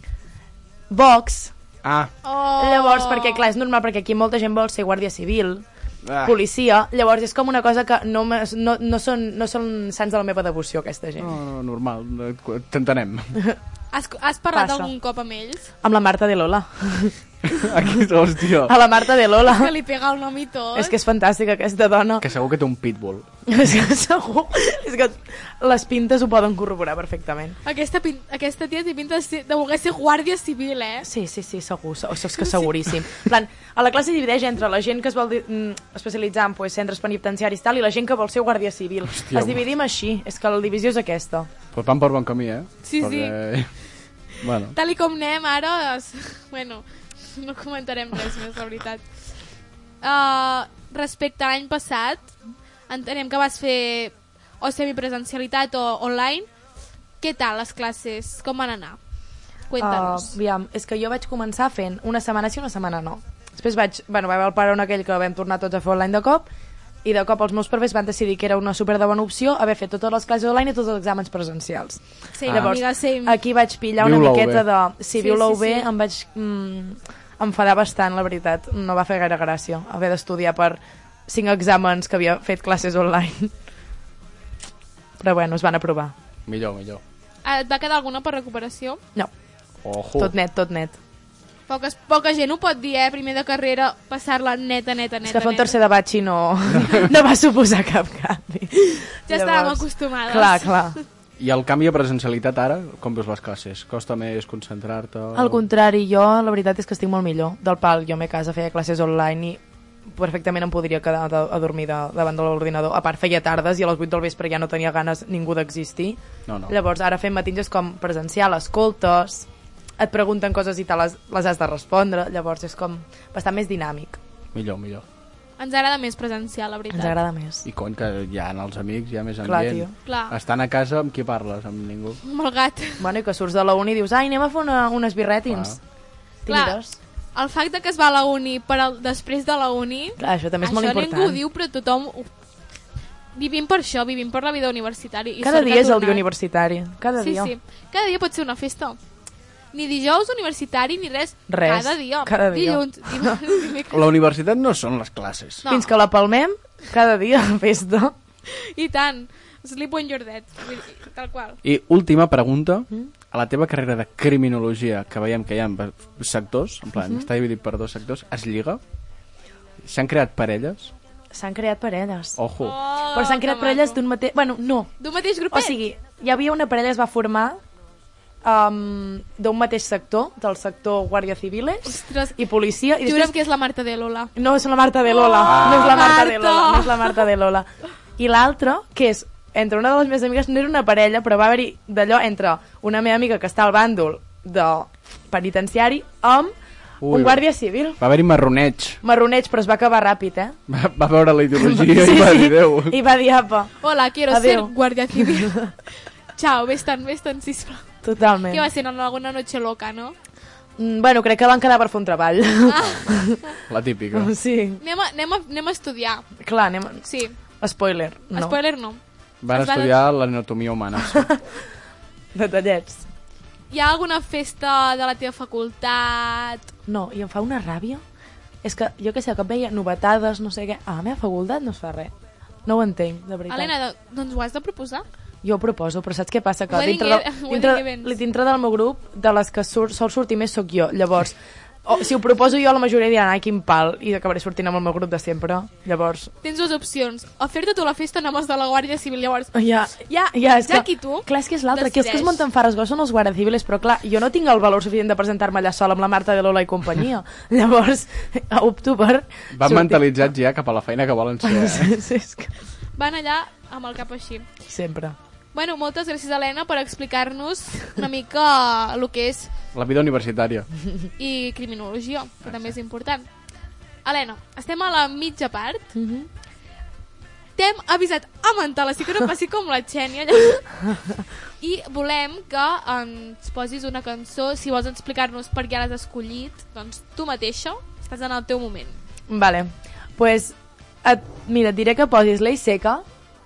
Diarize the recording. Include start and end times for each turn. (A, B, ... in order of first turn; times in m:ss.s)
0:00.9-0:01.5 A
0:01.8-0:02.1 B
0:02.2-0:03.4 C
0:02.6-0:05.6 A
0:06.0-0:06.4 B
0:06.2-0:11.3 A
0:11.2-0:13.4 B
0:13.9-0:15.7 C
0:14.5-0:14.9 A
0:15.8-0:17.6 A
0:17.5-0:18.8 B
0:18.6-0:19.7 A
0:19.4-0:21.0 C
0:20.7-0:22.2 A
0:22.2-0:23.2 B
0:23.5-0:27.6 A
0:27.6-0:31.1 C
0:31.0-0:41.5 A
0:39.1-0:39.6 B
0:41.7-0:43.7 B
0:42.8-0:43.3 C
0:44.3-0:44.8 B
0:44.7-0:49.0 C
0:50.0-0:52.3 C
0:52.9-0:56.5 C
0:57.2-0:59.0 C
0:59.7-1:00.3 C
0:59.8-1:06.5 A
1:07.0-1:23.5 A
1:12.3-1:13.4 C
1:14.0-1:14.7 B
1:15.2-1:15.9 C
1:25.2-1:26.1 A
1:26.5-1:27.0 B
1:27.4-1:29.0 C
1:29.8-1:30.3 B
1:30.2-1:31.0 A
1:31.7-1:35.8 C
1:35.2-1:41.0 A
1:36.7-1:37.0 B
1:39.3-1:41.0 C
1:41.4-1:45.6 B
1:45.3-1:59.5 A
1:56.5-1:56.7 B
2:00.0-2:04.2 A
2:04.5-2:05.0 B
2:05.6-2:07.2 C
2:06.9-2:07.6 A
2:07.6-2:12.2 B
2:09.4-2:09.9 A
2:10.0-2:10.3 C
2:12.2-2:13.1 C
2:13.0-2:15.8 A
2:15.5-2:15.8 B
2:16.4-2:17.0 A
2:16.5-2:16.8 C
2:17.3-2:22.3 C
2:20.2-2:21.4 A
2:23.3-2:26.3 C
2:25.4-2:27.5 A
2:27.2-2:29.0 C
2:29.7-2:34.0 C
2:31.5-2:33.4 A
2:33.9-2:35.6 B
2:35.6-2:35.9 C
2:35.7-2:38.1 A
2:38.6-2:41.6 C
2:41.6-2:48.8 B
2:47.0-2:47.3 A
2:49.8-2:50.9 B
2:51.3-2:52.4 A
2:52.4-2:52.8 B
2:52.6-2:54.0 C
2:53.1-2:54.9 A
2:55.0-2:55.8 C
2:55.5-2:57.6 A
2:58.4-3:03.4 A
3:01.8-3:02.4 C
3:03.0-3:04.3 C
3:04.4-3:16.5 A
3:05.1-3:07.2 C
3:05.5-3:06.1 B
3:17.0-3:17.4 B
3:17.0-3:18.0 A
3:18.0-3:19.0 B
3:19.0-3:20.6 A
3:20.7-3:23.0 B
3:21.6-3:25.7 A
3:23.8-3:25.7 C
3:26.4-3:27.9 C
3:28.0-3:28.6 A
3:28.5-3:30.1 C
3:30.8-3:33.4 A
3:32.7-3:33.0 C
3:33.7-3:34.3 B
3:34.1-3:34.8 A
3:34.8-3:36.3 C
3:36.4-3:37.0 A
3:37.0-3:37.3 C
3:37.6-3:38.6 A
3:38.3-3:39.0 C
3:39.4-3:41.3 B
3:39.5-3:39.9 C
3:41.1-3:41.4 A
3:42.3-3:43.0 A
3:43.7-3:46.7 C
3:46.9-3:48.0 A
3:48.6-3:52.1 A
3:52.6-3:53.7 A
3:53.5-3:55.0 C
3:55.4-4:06.3 A
3:56.7-3:58.2 C
4:06.4-4:12.4 C
4:09.5-4:20.0 A
4:19.5-4:22.0 B
4:21.4-4:22.5 A
4:23.0-4:24.5 C
4:24.7-4:25.2 A
4:25.5-4:29.5 C
4:29.7-4:30.7 B
4:31.2-4:33.2 C
4:34.0-4:35.9 C
4:35.9-4:36.3 A
4:37.6-4:40.8 C
4:41.6-4:49.0 C
4:49.3-4:53.0 A